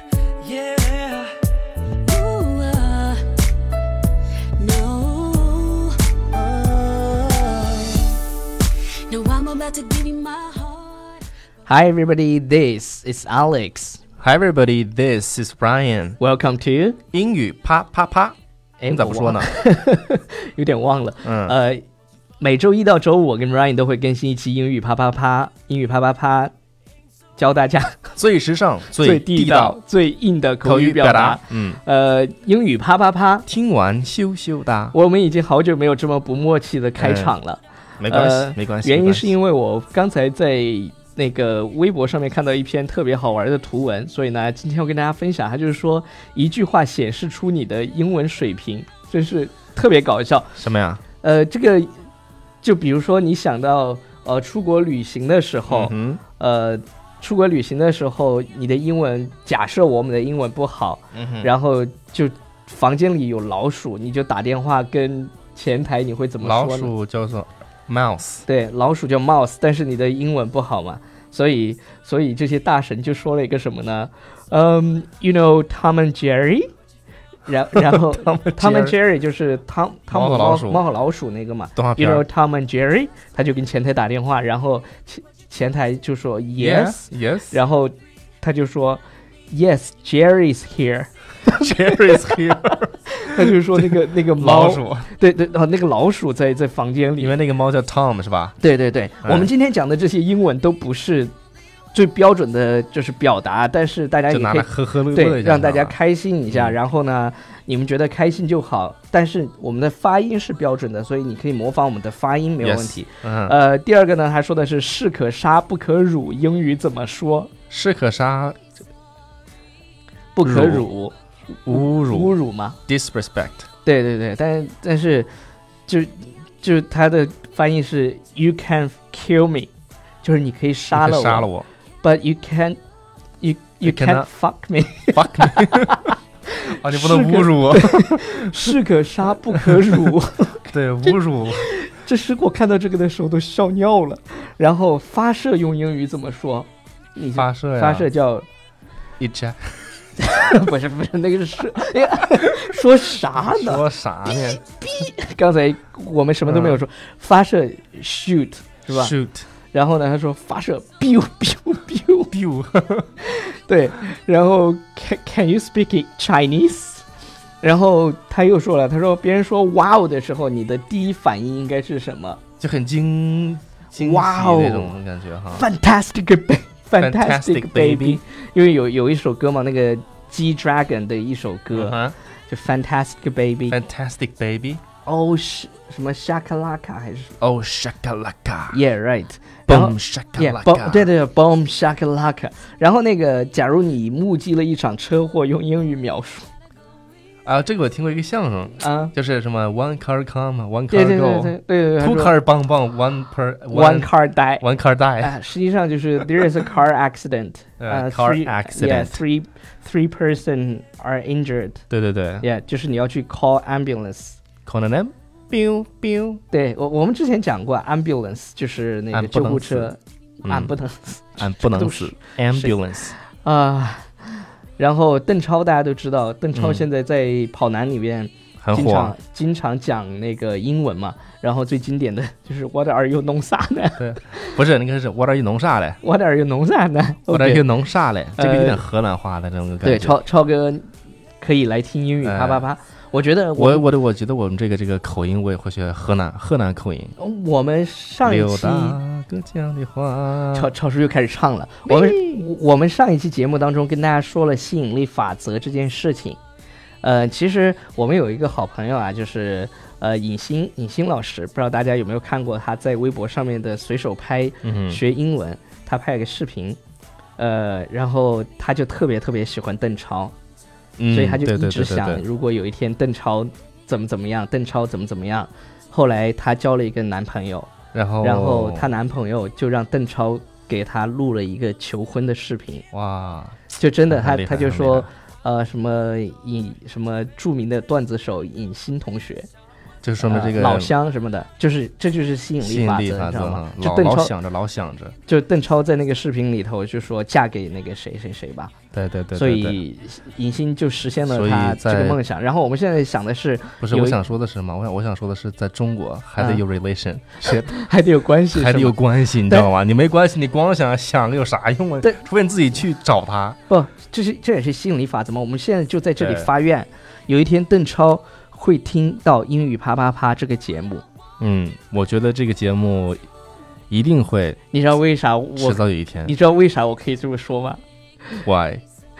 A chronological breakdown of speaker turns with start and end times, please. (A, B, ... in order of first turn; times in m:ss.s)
0:00.4-0:01.3 A
0:01.9-0:03.3 A
0:04.6-0:08.1 A
0:09.0-0:11.2 A
0:11.6-0:14.0 B
0:14.2-0:16.2 C
0:16.2-0:17.0 B
0:17.1-0:18.4 C
0:18.8-0:21.8 B
0:18.9-0:19.5 C
0:21.2-0:21.6 C
0:22.4-0:26.5 B
0:27.4-0:28.0 B
0:28.2-0:29.8 C
0:28.9-0:33.5 B
0:30.6-0:31.8 C
0:33.5-0:35.0 C
0:34.9-0:50.5 B
0:37.0-0:37.3 C
0:38.0-0:39.3 C
0:50.6-0:51.0 C
0:51.2-0:51.9 B
0:52.6-1:06.9 B
0:55.7-0:56.2 C
1:01.1-1:01.5 C
1:06.4-1:08.4 C
1:08.4-1:16.7 B
1:17.4-1:32.4 B
1:17.7-1:19.0 C
1:20.1-1:20.8 C
1:21.8-1:22.2 C
1:26.6-1:27.6 C
1:31.4-1:35.1 C
1:33.1-1:37.3 B
1:37.2-1:38.6 C
1:38.6-1:41.3 B
1:39.2-1:39.5 C
1:41.9-1:57.5 B
1:44.3-1:45.9 C
1:46.5-1:46.8 C
1:52.6-1:53.6 C
1:57.7-1:58.6 C
2:00.3-2:01.1 B
2:00.4-2:00.9 C
2:01.6-2:02.4 C
2:01.7-2:02.8 B
2:02.9-2:03.7 C
2:03.8-2:05.3 B
2:05.9-2:09.7 B
2:10.2-2:11.5 B
2:10.9-2:11.6 C
2:12.0-2:12.8 B
2:13.4-2:28.4 B
2:13.8-2:14.3 C
2:15.1-2:16.0 C
2:16.8-2:18.7 C
2:19.6-2:20.1 C
2:20.7-2:21.7 C
2:27.3-2:28.1 C
2:29.2-2:29.9 C
2:30.2-2:39.1 B
2:33.3-2:34.6 C
2:36.4-2:36.8 C
2:38.9-2:39.5 C
2:39.7-2:42.3 B
2:42.3-2:43.1 C
2:43.2-2:47.0 B
2:47.6-2:52.4 B
2:52.6-2:55.6 C
2:53.9-2:54.9 B
2:55.5-3:03.8 B
2:57.0-2:58.2 C
3:01.7-3:02.1 C
3:03.7-3:04.8 C
3:05.0-3:07.3 B
3:07.4-3:08.8 C
3:08.7-3:16.5 B
3:09.7-3:11.1 C
3:17.4-3:25.4 C
3:18.8-3:19.1 B
3:20.9-3:22.4 B
3:23.7-3:24.6 B
3:25.2-3:31.8 B
3:27.8-3:29.2 C
3:31.9-3:32.4 C
3:32.4-3:34.4 B
3:34.6-3:36.4 C
3:36.5-3:42.8 B
3:39.1-3:39.9 C
3:40.4-3:40.7 C
3:41.4-3:43.1 C
3:43.4-3:44.3 B
3:44.8-3:54.6 B
3:46.5-3:46.8 C
3:48.6-3:49.1 C
3:54.0-3:56.0 C
3:56.0-3:57.7 B
3:57.3-4:00.2 C
3:58.4-3:58.8 B
3:59.8-4:00.9 B
4:01.4-4:03.8 B
4:02.2-4:02.6 C
4:03.6-4:07.1 C
4:07.2-4:09.0 B
4:08.2-4:10.7 C
4:10.5-4:16.4 B
4:11.9-4:12.4 C
4:17.0-4:26.8 B
4:24.6-4:25.0 C
4:27.4-4:30.3 B
4:31.0-4:32.2 C
4:31.1-4:42.8 B
4:37.9-4:38.9 C
4:42.9-4:45.1 C
4:43.8-4:49.5 B
4:50.0-4:50.9 C
4:50.2-4:54.3 B
4:52.6-4:55.2 C
4:55.2-4:58.7 B
4:58.9-4:59.8 C
4:59.3-5:04.2 B
5:01.3-5:02.2 C
5:03.8-5:07.7 C
5:07.5-5:09.0 B
5:08.5-5:13.6 C
5:13.7-5:21.0 B
5:16.2-5:16.5 C
5:21.4-5:23.2 C
5:23.9-5:24.6 C
5:24.7-5:27.8 B
5:25.6-5:26.3 C
5:28.4-5:28.8 C